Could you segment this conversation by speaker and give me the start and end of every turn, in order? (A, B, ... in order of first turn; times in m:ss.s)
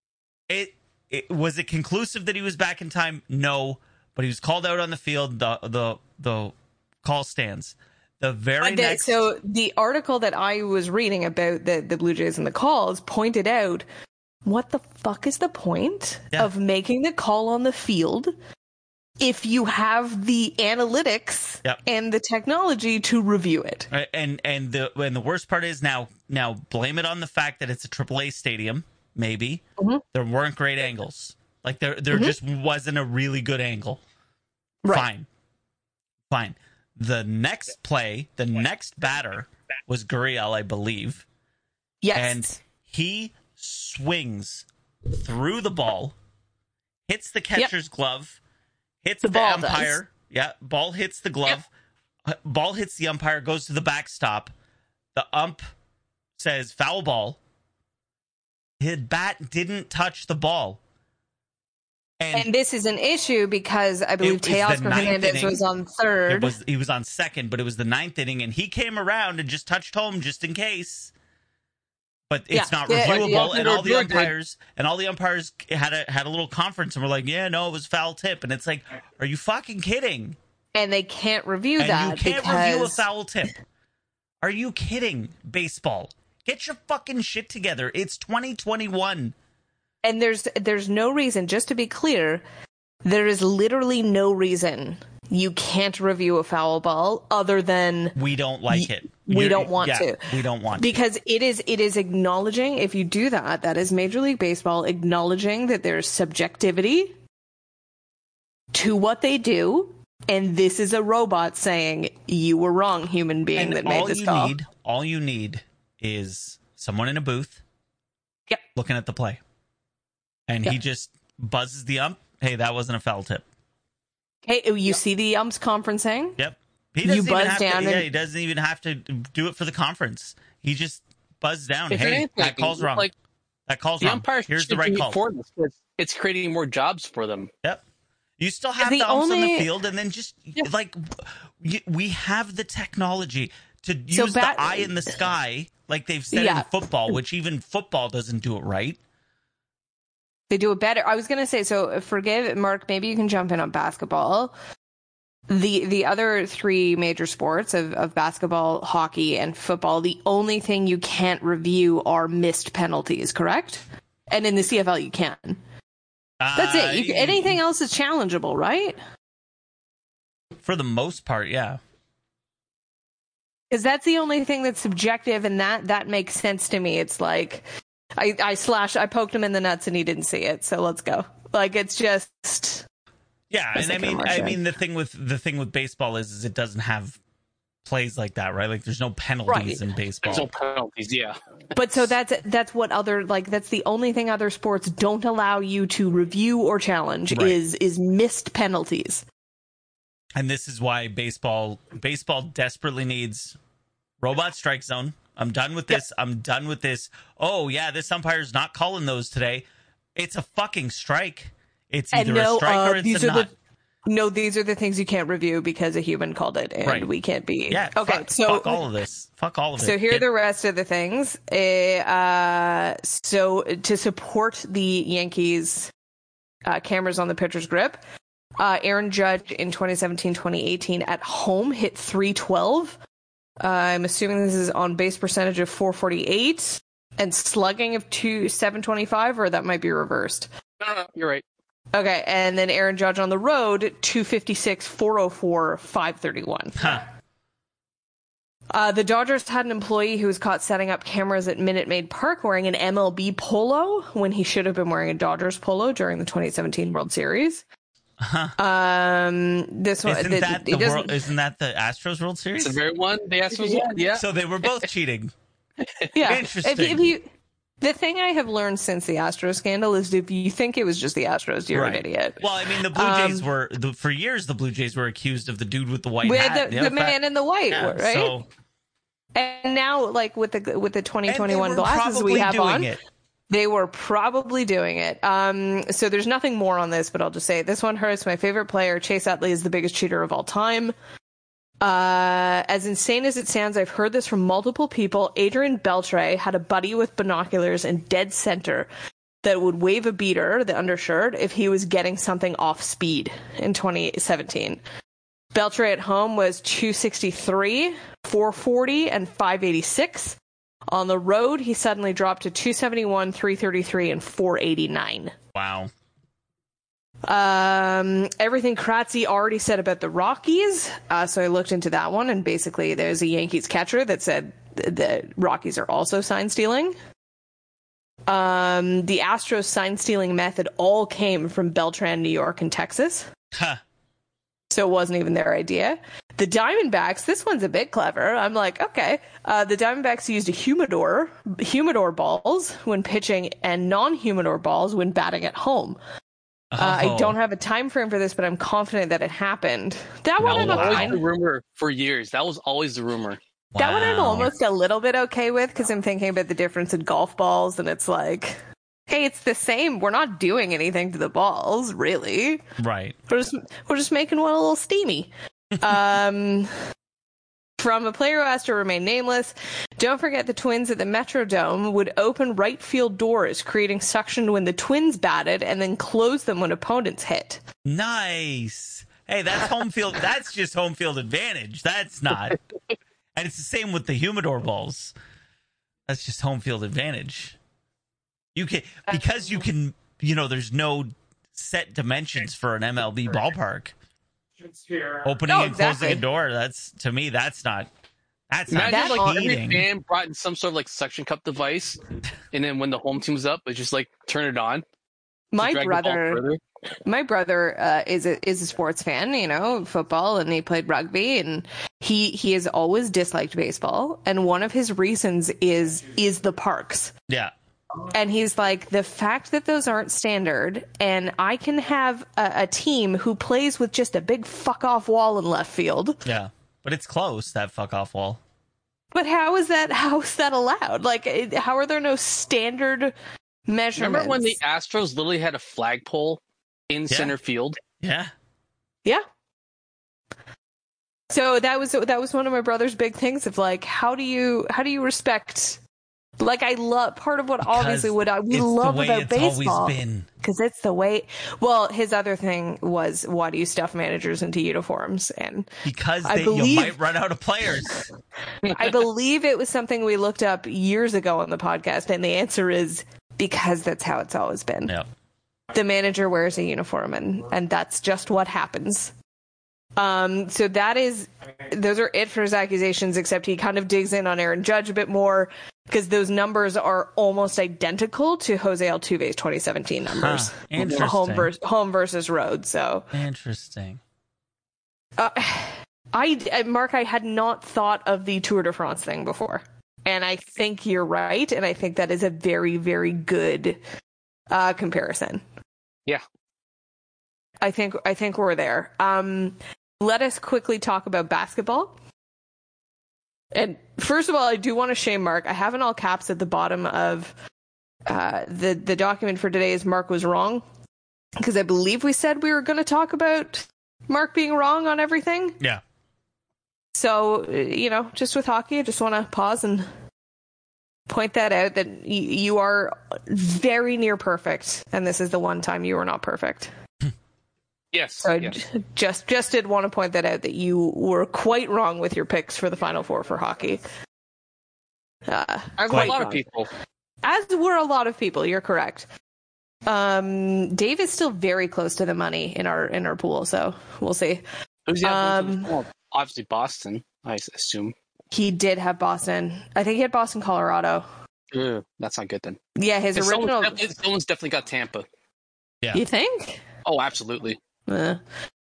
0:00.5-0:09.3 A
0:08.6-0:13.8 B
0:14.4-0:18.3 B
0:19.2-0:23.9 B
0:23.9-0:29.6 A
0:29.8-0:30.0 B
0:30.1-0:34.0 A
0:32.1-0:32.4 B
0:34.9-0:35.3 A
0:36.3-0:41.3 A
0:42.0-0:42.6 B
0:42.2-0:46.2 A
0:47.1-0:48.4 A
0:49.0-0:51.7 A
0:49.2-0:50.0 B
0:52.3-0:54.5 A
0:55.2-0:55.6 A
0:56.4-0:57.4 A
0:58.8-1:00.8 A
1:02.2-1:02.5 A
1:02.3-1:06.6 B
1:04.2-1:05.6 A
1:06.3-1:11.1 A
1:12.3-1:20.4 A
1:12.5-1:14.2 B
1:13.3-1:14.3 C
1:20.8-1:23.0 B
1:21.8-1:23.5 A
1:24.4-1:29.4 A
1:30.0-1:32.4 B
1:33.0-1:38.2 B
1:38.2-1:41.0 A
1:38.7-1:40.2 B
1:40.8-1:47.2 B
1:48.7-1:54.5 B
1:53.6-1:57.6 A
1:58.8-1:59.4 A
2:00.5-2:03.4 A
2:04.5-2:06.4 B
2:06.4-2:13.1 A
2:07.0-2:08.1 B
2:11.9-2:13.1 C
2:13.7-2:15.2 A
2:14.0-2:17.5 C
2:18.4-2:29.0 A
2:18.8-2:19.7 B
2:24.1-2:25.1 B
2:26.3-2:26.7 B
2:30.5-2:34.5 B
2:35.5-2:45.6 B
2:46.4-2:47.6 A
2:46.6-2:49.0 B
2:50.6-2:51.8 A
2:53.7-2:57.6 B
2:58.2-3:02.9 B
3:03.5-3:07.2 A
3:03.8-3:04.6 B
3:07.8-3:10.5 A
3:09.5-3:09.8 B
3:10.2-3:11.4 C
3:11.7-3:19.2 B
3:17.3-3:17.6 A
3:20.4-3:23.6 A
3:24.2-3:33.5 A
3:32.1-3:33.5 B
3:34.1-3:38.8 B
3:36.8-3:37.1 A
3:37.7-3:40.2 A
3:39.8-3:45.9 B
3:46.6-3:48.0 B
3:48.6-3:53.0 B
3:53.6-4:00.5 B
4:00.8-4:01.4 C
4:01.9-4:07.1 B
4:08.7-4:17.6 B
4:18.2-4:18.6 A
4:18.6-4:21.2 B
4:20.0-4:22.8 A
4:22.6-4:24.2 C
4:23.5-4:24.1 B
4:24.2-4:25.3 A
4:25.8-4:26.1 C
4:26.1-4:27.3 B
4:26.2-4:27.1 A
4:27.8-4:33.5 B
4:31.7-4:37.2 A
4:36.2-4:38.3 B
4:37.7-4:38.5 A
4:39.4-4:43.0 B
4:41.3-4:43.0 A
4:43.5-4:50.9 B
4:51.8-4:58.9 B
4:59.4-5:04.8 B
5:05.5-5:10.4 B
5:10.9-5:15.3 B
5:15.6-5:15.9 A
5:17.2-5:27.0 B
5:28.3-5:33.3 B
5:33.5-5:33.8 A
5:34.7-5:46.0 B
5:46.7-5:47.4 A
5:46.8-5:51.2 B
5:50.4-5:51.2 A
5:50.4-5:53.4 C
5:53.7-5:54.5 A
5:53.8-6:02.6 B
6:02.8-6:03.2 A
6:03.3-6:06.7 B
6:07.8-6:17.6 B
6:17.8-6:22.6 A
6:23.4-6:25.1 A
6:26.1-6:27.6 A
6:28.6-6:33.9 A
6:35.2-6:37.9 A
6:35.5-6:36.2 B
6:38.5-6:39.9 A
6:38.7-6:42.0 C
6:38.9-6:39.3 B
6:42.5-6:44.8 C
6:45.5-6:46.4 B
6:45.6-6:46.6 C
6:47.1-6:57.1 B
6:58.1-7:06.2 B
7:06.2-7:08.4 A
7:09.1-7:13.1 B
7:13.7-7:14.6 B
7:14.0-7:17.8 C
7:17.1-7:17.3 A
7:18.0-7:18.3 A
7:21.3-7:25.8 B
7:26.4-7:35.7 B
7:27.6-7:30.3 A
7:35.8-7:38.0 A
7:36.2-7:37.0 B
7:38.7-7:44.9 B
7:45.7-7:49.1 B
7:50.0-8:03.1 B
8:00.1-8:01.5 A
8:03.1-8:04.0 A
8:05.2-8:13.8 B
8:14.5-8:15.4 B
8:17.6-8:21.9 B
8:23.5-8:27.3 B
8:28.1-8:30.6 B
8:31.4-8:35.6 B
8:36.9-8:39.9 B
8:41.1-8:46.7 B
8:47.9-8:48.5 C
8:48.2-8:53.8 B
8:55.3-8:56.4 B
8:55.8-8:56.7 C
8:57.2-8:59.1 B
8:59.9-9:04.5 B
9:04.9-9:07.9 C
9:05.0-9:05.7 B
9:08.3-9:11.1 B
9:11.5-9:12.6 C
9:12.8-9:13.8 B
9:13.2-9:15.0 C
9:15.9-9:16.6 B
9:16.8-9:17.6 C
9:17.9-9:18.2 B